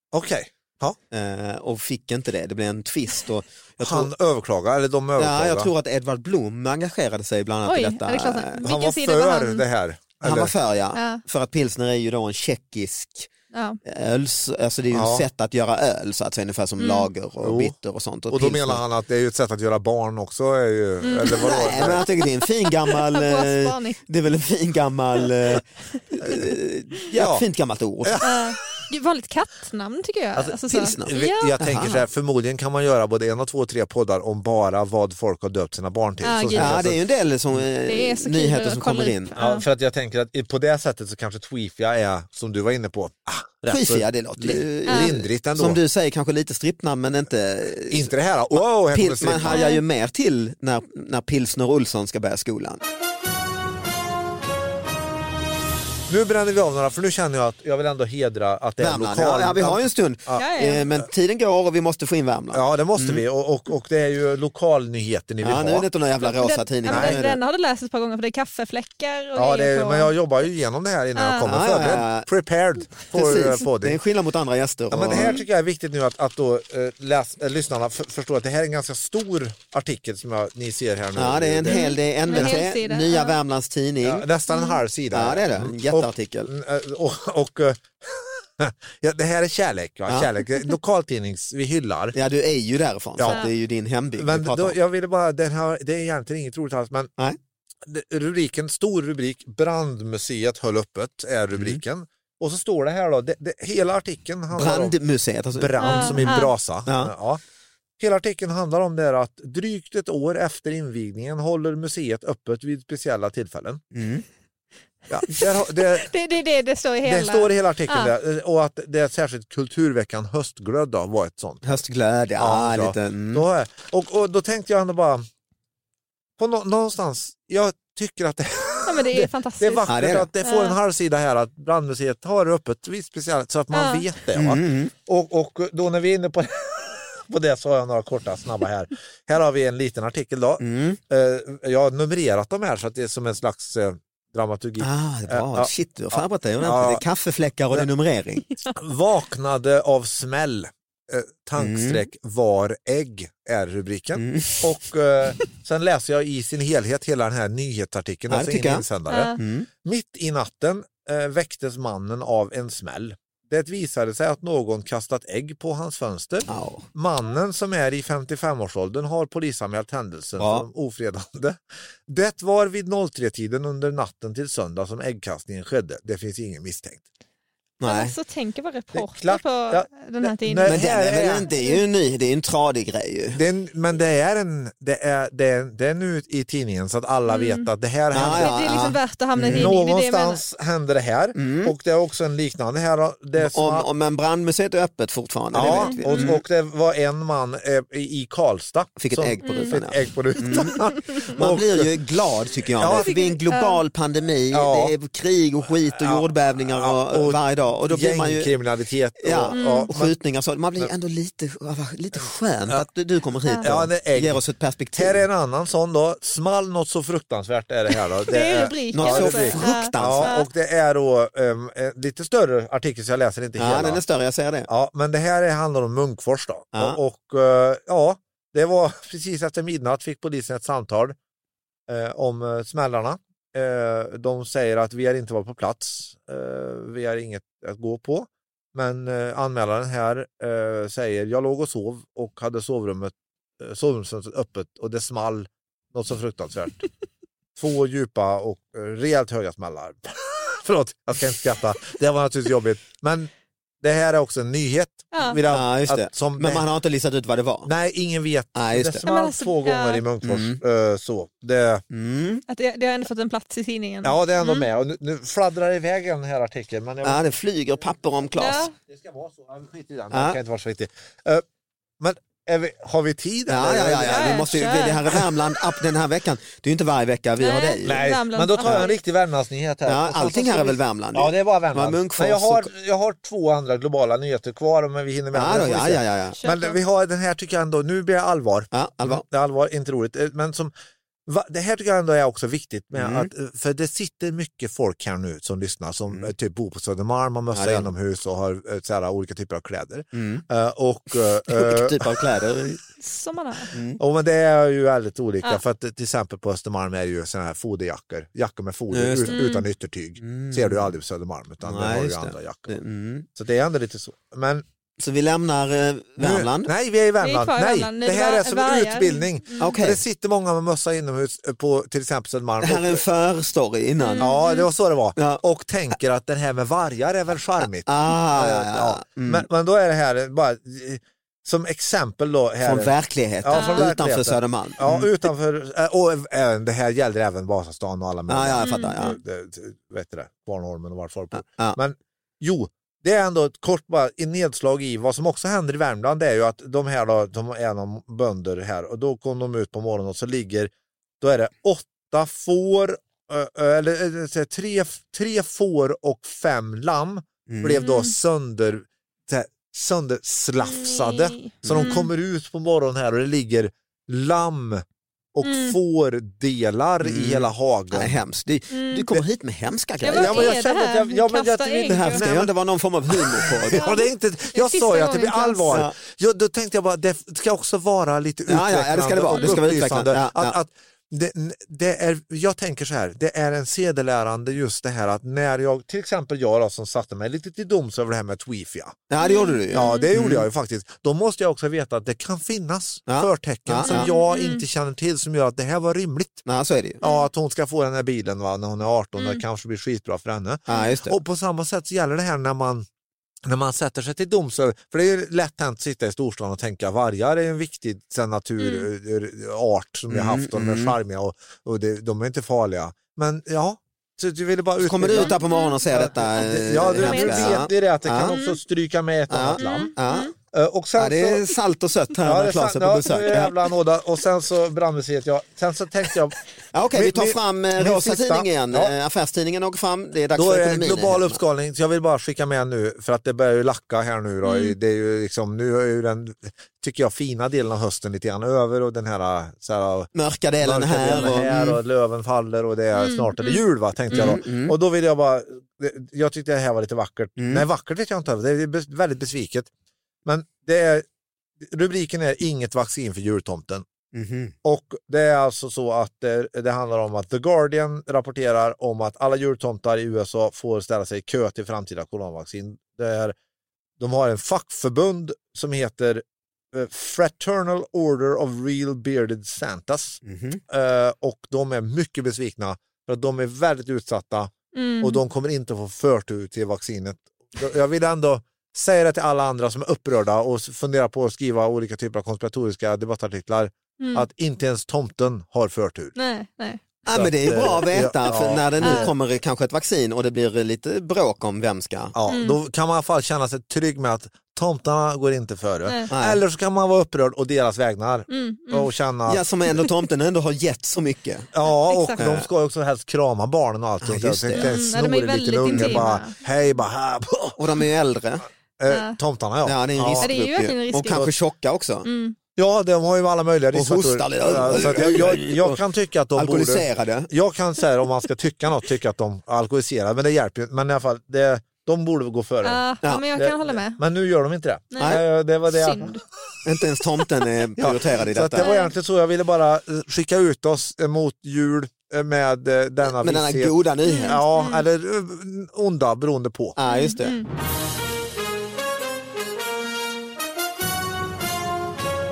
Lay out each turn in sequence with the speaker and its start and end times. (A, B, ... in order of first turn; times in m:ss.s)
0:00.1-0:01.0 A
0:01.1-0:04.1 B
0:03.8-0:05.7 A
0:05.2-0:08.7 B
0:07.6-0:09.6 C
0:08.6-0:10.5 A
0:10.2-0:13.3 B
0:10.9-0:11.2 C
0:13.5-0:13.8 C
0:13.8-0:18.8 B
0:14.9-0:15.2 A
0:16.8-0:17.1 C
0:17.4-0:17.7 A
0:18.3-0:22.0 A
0:21.0-0:24.0 C
0:21.3-0:28.2 B
0:27.1-0:27.4 A
0:28.0-0:28.8 A
0:28.2-0:31.5 C
0:30.4-0:37.0 A
0:30.7-0:32.0 B
0:36.2-0:36.8 C
0:36.5-0:39.3 B
0:37.8-0:39.6 C
0:39.4-0:45.8 A
0:43.7-0:52.8 B
0:44.9-0:45.1 C
0:47.9-0:49.7 A
0:49.5-0:49.8 C
0:56.1-1:00.4 A
0:58.8-1:03.2 B
1:00.3-1:00.8 C
1:02.5-1:05.9 A
1:05.4-1:07.4 B
1:06.2-1:10.2 C
1:06.9-1:07.2 A
1:09.3-1:14.0 A
1:11.2-1:11.4 C
1:11.4-1:12.3 B
1:13.1-1:15.4 B
1:14.9-1:22.6 A
1:21.2-1:24.2 B
1:21.7-1:23.4 C
1:24.0-1:32.2 A
1:24.5-1:24.8 C
1:25.1-1:26.5 B
1:32.1-1:34.8 B
1:33.2-1:33.5 A
1:34.2-1:37.1 A
1:37.8-1:45.0 A
1:41.5-1:41.8 B
1:44.5-1:47.1 B
1:45.5-1:47.4 A
1:45.8-1:46.5 C
1:48.0-1:53.8 A
1:53.9-1:54.2 B
1:55.1-1:56.1 A
1:55.4-1:58.1 C
1:57.0-2:01.8 A
2:01.6-2:03.4 B
2:02.4-2:05.2 A
2:06.4-2:27.0 A
2:08.8-2:09.9 C
2:09.9-2:10.3 B
2:10.4-2:10.8 C
2:13.7-2:14.0 C
2:14.3-2:14.9 B
2:20.6-2:21.0 B
2:24.8-2:28.5 B
2:28.8-2:57.0 A
2:31.6-2:32.0 B
2:34.2-2:34.6 B
2:38.3-2:38.8 B
2:39.1-2:39.4 C
2:39.4-2:39.7 B
2:46.5-2:46.8 B
2:50.4-2:50.6 B
2:57.8-2:58.1 B
2:57.8-3:00.8 C
2:58.9-3:01.5 A
3:00.6-3:03.4 B
3:01.5-3:01.8 C
3:03.3-3:08.5 A
3:07.3-3:07.7 C
3:08.1-3:09.7 B
3:08.2-3:10.4 C
3:09.4-3:13.9 A
3:11.4-3:11.7 B
3:13.4-3:16.4 B
3:15.5-3:21.9 A
3:15.6-3:16.3 C
3:19.0-3:20.8 B
3:19.4-3:19.7 C
3:21.3-3:28.5 B
3:22.8-3:23.1 A
3:23.0-3:23.8 C
3:24.5-3:24.9 A
3:26.0-3:30.1 A
3:29.2-3:35.2 B
3:29.5-3:29.9 C
3:33.6-3:34.4 A
3:34.9-3:44.0 A
3:38.3-3:40.5 C
3:38.9-3:40.4 B
3:43.6-3:44.7 B
3:44.7-3:51.2 A
3:46.7-3:47.0 B
3:51.9-4:06.8 A
4:07.6-4:16.6 A
4:15.1-4:15.4 C
4:15.5-4:17.7 B
4:17.6-4:21.8 A
4:18.5-4:19.0 B
4:19.0-4:20.0 C
4:20.2-4:20.6 B
4:21.9-4:22.4 B
4:22.5-4:24.7 C
4:24.0-4:27.2 A
4:27.0-4:28.7 B
4:28.4-4:28.7 C
4:28.8-4:31.4 A
4:30.1-4:30.4 B
4:32.0-4:35.3 A
4:33.5-4:38.0 B
4:34.1-4:35.0 C
4:37.4-4:39.0 C
4:37.8-4:50.7 A
4:39.8-4:42.7 B
4:45.3-4:46.4 B
4:46.4-4:46.8 C
4:48.7-4:49.2 B
4:51.3-5:02.4 A
4:52.9-4:53.3 B
4:57.5-4:57.9 B
5:00.1-5:00.4 B
5:01.5-5:02.8 B
5:03.0-5:03.7 C
5:03.7-5:04.0 B
5:04.0-5:12.8 A
5:08.9-5:09.4 B
5:09.3-5:09.6 C
5:10.2-5:10.9 B
5:11.6-5:13.3 B
5:13.3-5:14.6 A
5:15.0-5:16.7 B
5:16.2-5:23.0 A
5:17.2-5:19.7 C
5:19.6-5:20.0 B
5:22.6-5:24.3 B
5:24.0-5:24.7 C
5:24.2-6:04.8 A
5:25.2-5:25.4 B
5:27.8-5:29.5 B
5:32.6-5:35.1 B
5:33.5-5:33.9 C
5:38.3-5:39.2 B
5:38.6-5:39.2 C
5:41.3-5:41.8 B
5:57.5-5:57.8 B
5:57.8-5:58.1 C
6:00.6-6:02.1 C
6:01.6-6:02.0 B
6:05.3-6:08.2 A
6:05.4-6:05.8 C
6:07.0-6:10.6 B
6:08.7-6:09.0 C
6:10.0-6:12.2 C
6:10.1-6:12.6 A
6:11.9-6:13.9 B
6:13.1-6:29.0 A
6:13.8-6:15.8 C
6:18.5-6:20.6 B
6:29.1-6:30.4 B
6:29.2-6:30.1 C
6:29.7-6:36.4 A
6:33.1-6:34.1 B
6:33.8-6:34.6 C
6:36.4-6:37.0 B
6:37.0-6:42.8 A
6:39.2-6:39.4 C
6:40.7-6:41.2 B
6:43.4-6:55.4 A
6:48.6-6:48.9 C
6:50.1-6:51.0 B
6:54.8-6:58.4 B
6:55.2-6:55.8 C
6:55.9-6:59.9 A
6:57.0-6:57.6 C
6:58.2-6:58.6 C
6:59.3-7:00.3 B
6:59.6-7:00.3 C
7:00.5-7:01.4 A
7:01.0-7:03.5 B
7:02.2-7:06.4 A
7:06.7-7:11.4 B
7:06.9-7:08.9 A
7:10.3-7:29.7 A
7:14.4-7:14.8 C
7:20.1-7:21.8 B
7:22.9-7:24.4 C
7:24.1-7:24.8 B
7:27.4-7:27.6 B
7:30.2-7:31.0 A
7:31.6-7:33.8 A
7:34.1-7:34.5 B
7:34.6-7:43.3 A
7:44.0-8:06.1 A
7:50.2-7:50.6 B
7:54.7-7:55.2 C
8:04.0-8:04.2 C
8:06.2-8:06.8 C
8:07.1-8:12.1 B
8:07.1-8:09.1 A
8:08.8-8:09.1 C
8:12.1-8:19.8 A
8:12.3-8:12.6 C
8:15.8-8:16.1 C
8:16.1-8:16.4 B
8:18.3-8:18.9 C
8:19.3-8:21.5 B
8:21.5-8:27.8 A
8:21.6-8:22.2 C
8:22.2-8:22.5 B
8:24.0-8:24.8 B
8:24.5-8:26.3 C
8:25.7-8:26.1 B
8:27.6-8:28.4 B
8:28.8-8:30.3 A
8:28.9-8:29.2 C
8:29.6-8:32.1 B
8:30.2-8:31.3 C
8:32.0-8:32.4 C
8:32.6-8:46.2 A
8:33.7-8:35.8 B
8:36.3-8:37.3 B
8:42.6-8:44.0 C
8:44.9-8:46.2 C
8:45.0-8:45.2 B
8:46.6-8:48.7 B
8:47.8-8:56.8 A
8:48.6-8:48.9 C
8:53.1-8:54.4 B
8:54.0-8:54.8 C
8:56.8-8:57.4 B
8:56.8-8:57.5 C